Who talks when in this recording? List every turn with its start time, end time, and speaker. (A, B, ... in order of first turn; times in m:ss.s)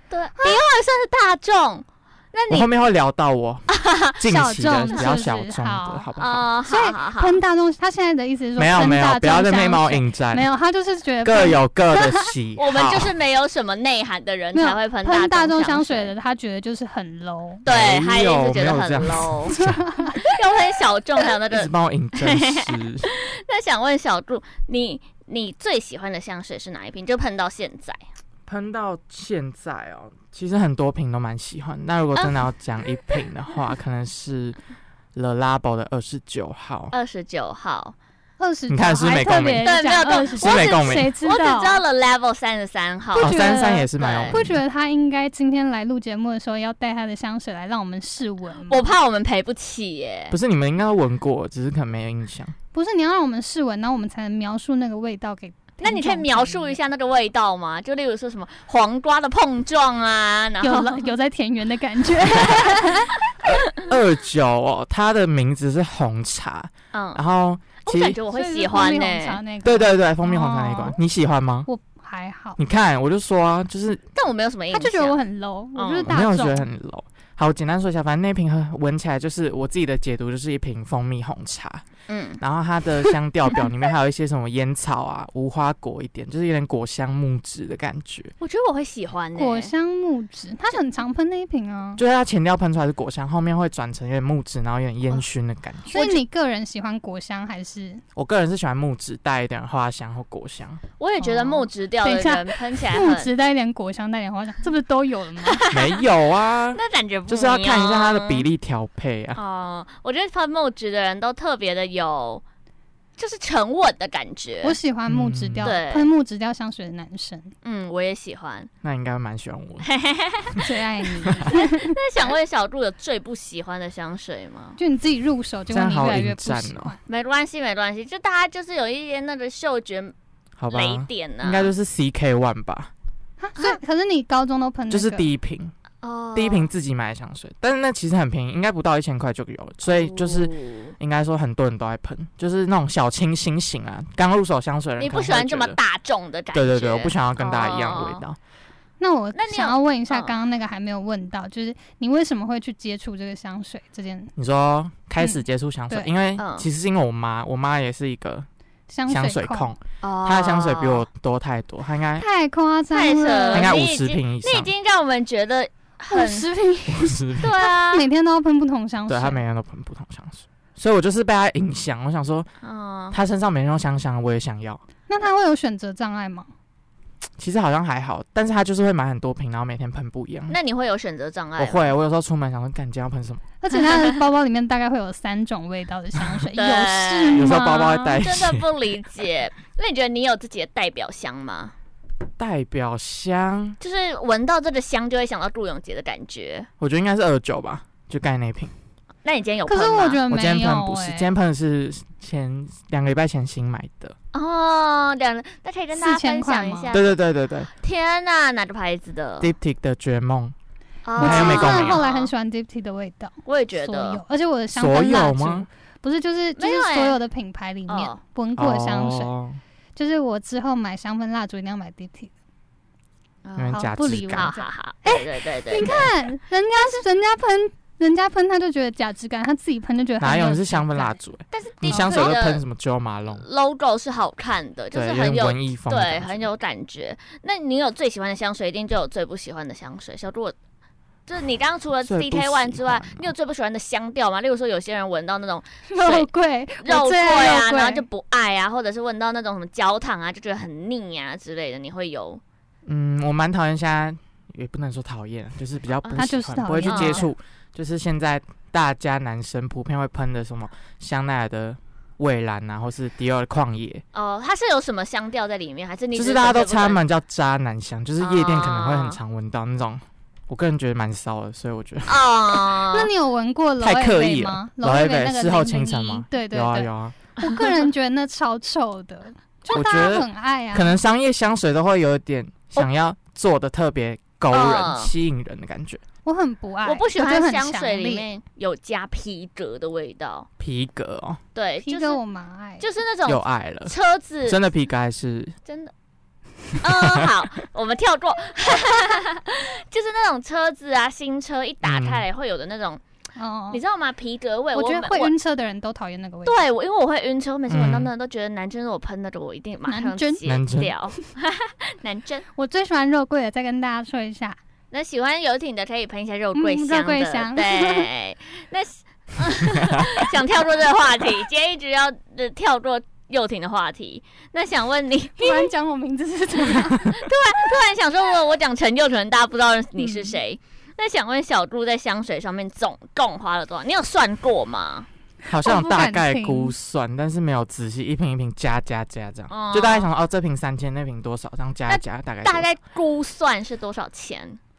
0:00.1-0:02.7 A
0:00.4-0:00.6 B
0:02.5-0:06.4 C
0:03.7-0:04.1 A
0:04.2-0:06.1 B
0:04.8-0:05.2 A
0:06.2-0:07.4 A
0:06.6-0:12.3 B
0:08.6-0:10.4 C
0:11.2-0:13.1 C
0:12.6-0:16.1 A
0:14.5-0:17.6 B
0:17.6-0:19.6 A
0:17.6-0:19.8 C
0:19.5-0:20.2 B
0:20.1-0:28.0 A
0:21.5-0:23.1 C
0:28.5-0:34.6 C
0:32.2-0:32.4 A
0:35.1-0:36.9 C
0:36.9-0:37.9 A
0:38.4-0:41.8 B
0:38.7-0:39.8 C
0:39.6-0:44.4 A
0:40.4-0:41.1 C
0:43.1-0:48.9 B
0:43.2-0:44.6 C
0:48.7-0:50.4 A
0:50.3-0:52.5 C
0:52.7-0:56.8 B
0:55.8-1:01.1 A
1:00.6-1:03.2 B
1:02.3-1:03.0 A
1:03.4-1:08.2 C
1:06.9-1:07.2 A
1:07.8-1:09.4 A
1:08.3-1:11.0 B
1:09.6-1:11.7 C
1:11.7-1:12.6 B
1:12.6-1:14.0 C
1:14.1-1:15.2 A
1:14.7-1:16.6 B
1:15.8-1:16.1 A
1:16.0-1:21.8 C
1:22.1-1:22.4 A
1:22.4-1:28.3 C
1:28.4-1:29.7 A
1:29.3-1:32.0 B
1:32.0-1:36.0 C
1:35.9-1:38.0 B
1:38.1-1:40.8 C
1:41.0-1:43.3 A
1:41.2-1:45.6 B
1:45.4-1:46.0 A
1:45.7-1:49.4 C
1:46.7-1:48.4 A
1:49.4-1:52.4 A
1:53.2-1:54.8 A
1:54.6-1:57.5 B
1:55.1-1:55.7 C
1:55.6-1:56.1 A
1:57.6-1:58.7 A
1:58.8-1:59.9 C
1:59.8-2:00.6 A
2:00.6-2:02.0 B
2:01.2-2:01.5 C
2:01.5-2:04.8 A
2:04.8-2:07.0 B
2:05.7-2:06.9 C
2:07.1-2:10.1 A
2:10.6-2:12.9 C
2:10.7-2:11.7 A
2:13.4-2:15.3 B
2:14.9-2:15.7 C
2:16.0-2:16.7 A
2:16.3-2:25.8 C
2:19.8-2:20.9 A
2:25.0-2:28.2 A
2:26.5-2:28.4 C
2:29.0-2:34.3 B
2:29.3-2:30.3 A
2:34.4-2:38.5 C
2:35.2-2:36.1 B
2:36.4-2:36.7 A
2:38.9-2:39.7 B
2:39.1-2:42.2 C
2:40.0-2:41.0 A
2:42.2-2:43.8 B
2:42.9-2:46.5 A
2:43.5-2:44.7 C
2:46.1-2:49.4 B
2:46.9-2:47.5 C
2:47.4-2:48.1 A
2:49.1-2:52.5 C
2:52.6-2:53.2 A
2:53.1-2:54.8 C
2:55.1-2:56.5 B
2:57.4-3:00.6 C
3:00.5-3:01.9 A
3:01.6-3:03.4 C
3:03.6-3:08.2 B
3:06.5-3:11.7 A
3:07.3-3:08.6 C
3:12.4-3:13.8 C
3:13.8-3:16.7 A
3:16.8-3:18.7 C
3:19.2-3:20.2 A
3:19.6-3:21.3 B
3:20.3-3:24.2 C
3:24.3-3:27.2 A
3:25.9-3:26.9 B
3:26.9-3:27.7 C
3:27.8-3:29.5 A
3:29.4-3:30.5 C
3:31.0-3:32.3 A
3:31.2-3:32.0 C
3:31.2-3:39.3 B
3:33.4-3:34.2 A
3:34.7-3:35.7 C
3:36.6-3:37.2 A
3:37.9-3:38.2 A
3:38.6-3:39.6 C
3:40.0-3:42.3 B
3:43.4-3:46.1 A
3:43.6-3:44.5 C
3:43.7-3:51.2 B
3:50.2-3:53.4 C
3:51.5-3:52.6 A
3:51.8-3:52.3 B
3:53.4-4:00.5 A
3:54.9-3:56.5 C
4:01.3-4:06.3 A
4:02.0-4:03.3 C
4:05.9-4:08.0 B
4:06.8-4:12.4 A
4:12.8-4:24.0 C
4:16.1-4:17.3 B
4:16.8-4:17.2 A
4:24.1-4:27.0 A
4:26.1-4:32.2 C
4:28.2-4:29.2 A
4:32.0-4:33.1 A
4:32.9-4:41.0 B
4:33.8-4:37.2 C
4:39.7-4:46.0 C
4:44.5-4:45.1 A
4:46.2-4:48.3 B
4:46.8-4:50.5 A
4:50.6-4:51.4 C
4:51.5-4:52.2 A
4:51.8-4:52.8 B
4:52.8-4:54.6 A
4:53.2-4:53.9 C
4:54.4-4:55.5 C
4:55.7-4:55.9 A
4:56.8-5:03.0 A
4:56.8-4:57.3 C
5:01.8-5:02.2 C
5:03.4-5:03.8 B
5:03.7-5:05.3 A
5:04.7-5:06.6 B
5:06.4-5:12.4 A
5:07.7-5:08.1 C
5:09.9-5:10.4 B
5:10.4-5:10.9 C
5:12.6-5:14.6 B
5:14.9-5:25.7 A
5:16.5-5:18.1 B
5:25.4-5:27.2 B
5:26.8-5:35.1 A
5:30.0-5:30.3 B
5:35.5-5:42.7 C
5:35.6-5:36.7 B
5:39.5-5:40.1 A
5:41.9-5:44.6 A